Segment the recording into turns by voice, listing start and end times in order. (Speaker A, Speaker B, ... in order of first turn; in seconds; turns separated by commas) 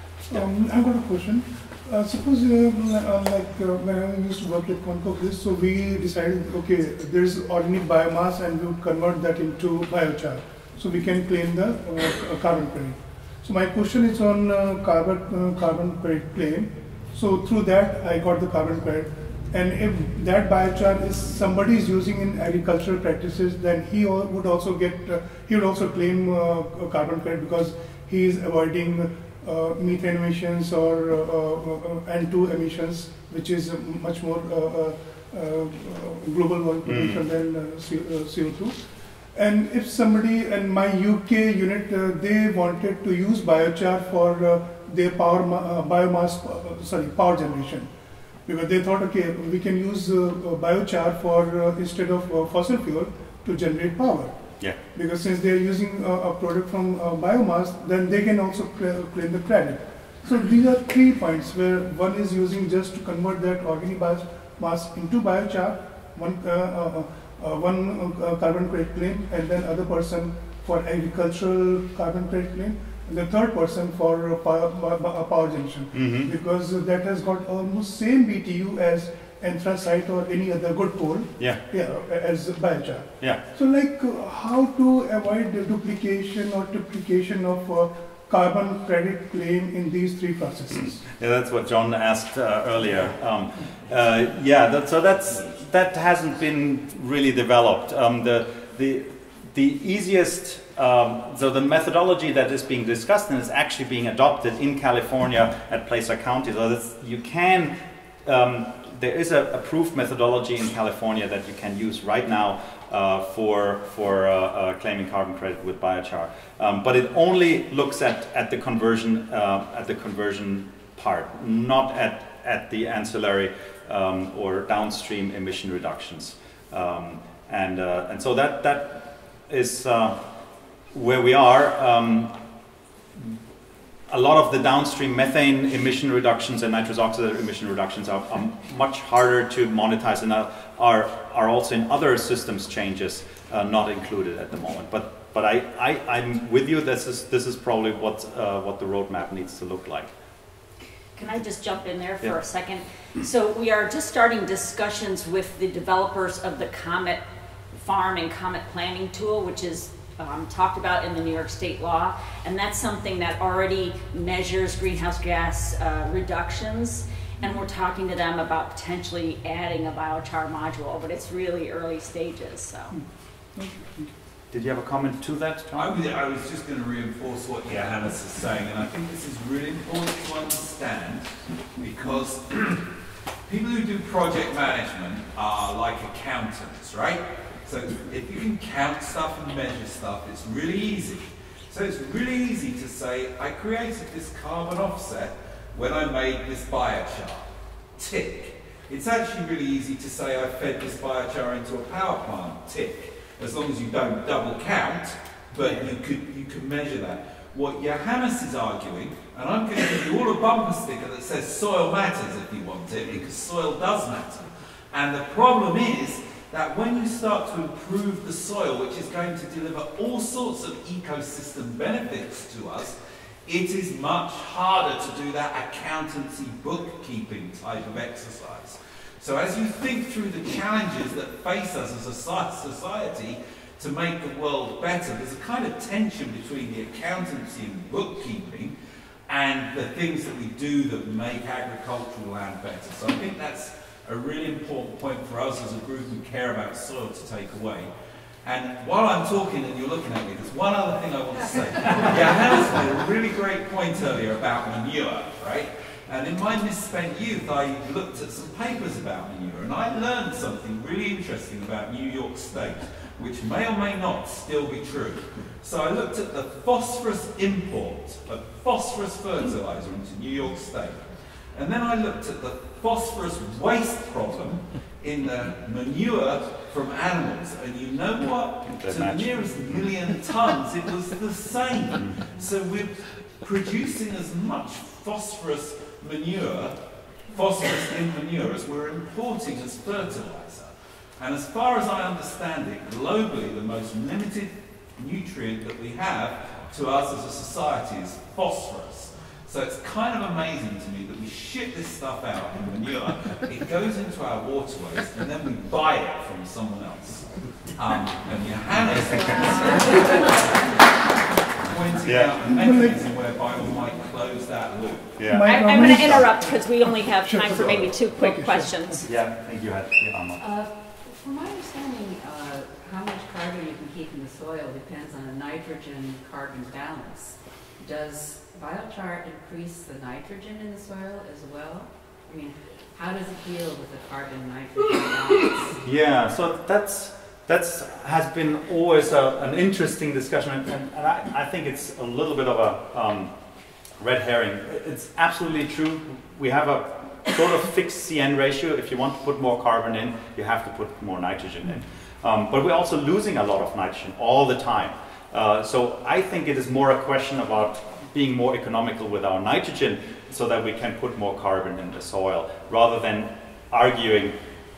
Speaker A: 0.3-38.8, Speaker B: 36.8-37.2, Speaker A: 39.4-47.9, Speaker A: 48.5-54.4, Speaker A: 54.9-91.0, Speaker B: 75.9-76.3, Speaker B: 90.7-130.2, Speaker B: 130.9-132.3, Speaker B: 134.1-150.1, Speaker C: 151.2-157.2, Speaker C: 157.7-173.0, Speaker A: 173.6-174.1, Speaker B: 174.5-176.0, Speaker D: 175.7-182.9, Speaker D: 183.5-238.7, Speaker D: 239.3-247.9, Speaker D: 248.4-286.8, Speaker B: 278.7-279.5, Speaker D: 287.3-310.4, Speaker D: 311.7-315.2, Speaker B: 312.1-312.4, Speaker A: 312.6-313.0, Speaker B: 315.2-316.3, Speaker A: 315.3-319.0, Speaker C: 315.4-319.1, Speaker B: 319.1-320.4, Speaker E: 320.4-335.8, Speaker B: 335.8-343.3, Speaker B: 344.0-364.4